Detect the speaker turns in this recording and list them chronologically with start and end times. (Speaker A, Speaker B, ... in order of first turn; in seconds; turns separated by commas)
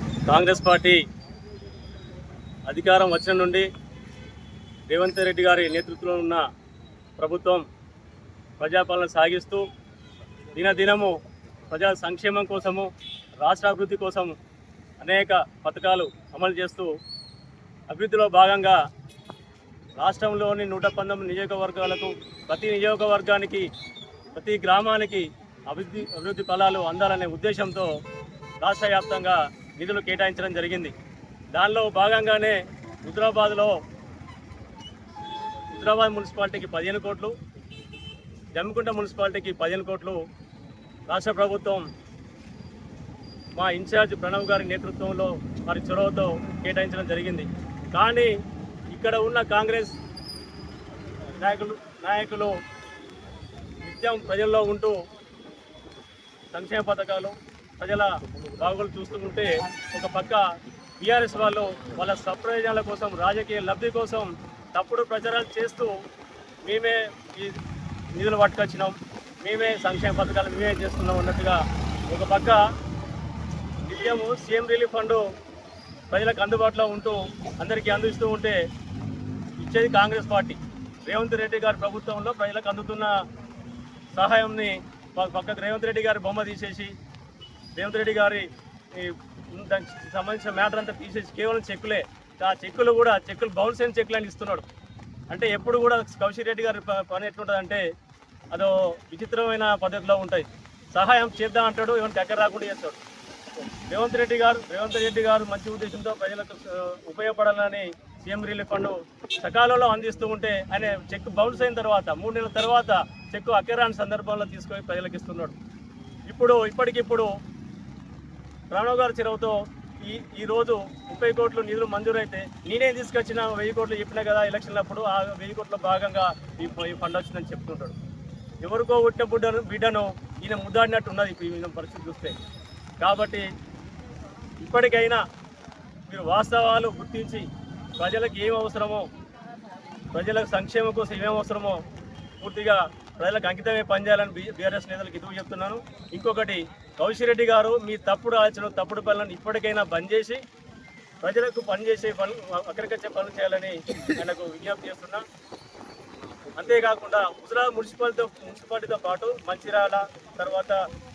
Speaker A: 0.3-1.0, Speaker A: 2.7-3.7, Speaker A: 4.9-6.4, Speaker A: 7.2-7.6, Speaker A: 8.6-9.6, Speaker A: 10.5-11.2, Speaker A: 11.7-12.9, Speaker A: 13.4-14.3, Speaker A: 15.0-16.9, Speaker A: 17.9-18.8, Speaker A: 20.0-23.7, Speaker A: 24.3-27.9, Speaker A: 28.6-30.9, Speaker A: 31.5-33.7, Speaker A: 35.7-37.3, Speaker A: 38.5-40.2, Speaker A: 41.1-41.9, Speaker A: 43.5-48.3, Speaker A: 48.9-50.0, Speaker A: 51.4-52.6, Speaker A: 53.8-55.0, Speaker A: 56.5-60.4, Speaker A: 61.0-65.9, Speaker A: 66.7-67.6, Speaker A: 68.1-72.6, Speaker A: 73.9-75.2, Speaker A: 76.1-78.6, Speaker A: 79.6-83.2, Speaker A: 84.1-86.9, Speaker A: 87.8-94.6, Speaker A: 95.3-97.8, Speaker A: 98.5-103.0, Speaker A: 103.9-115.5, Speaker A: 116.3-117.3, Speaker A: 118.7-127.9, Speaker A: 128.6-132.3, Speaker A: 133.0-133.4, Speaker A: 134.6-135.2, Speaker A: 136.1-139.1, Speaker A: 140.1-141.8, Speaker A: 142.4-150.4, Speaker A: 151.2-155.2, Speaker A: 156.6-160.8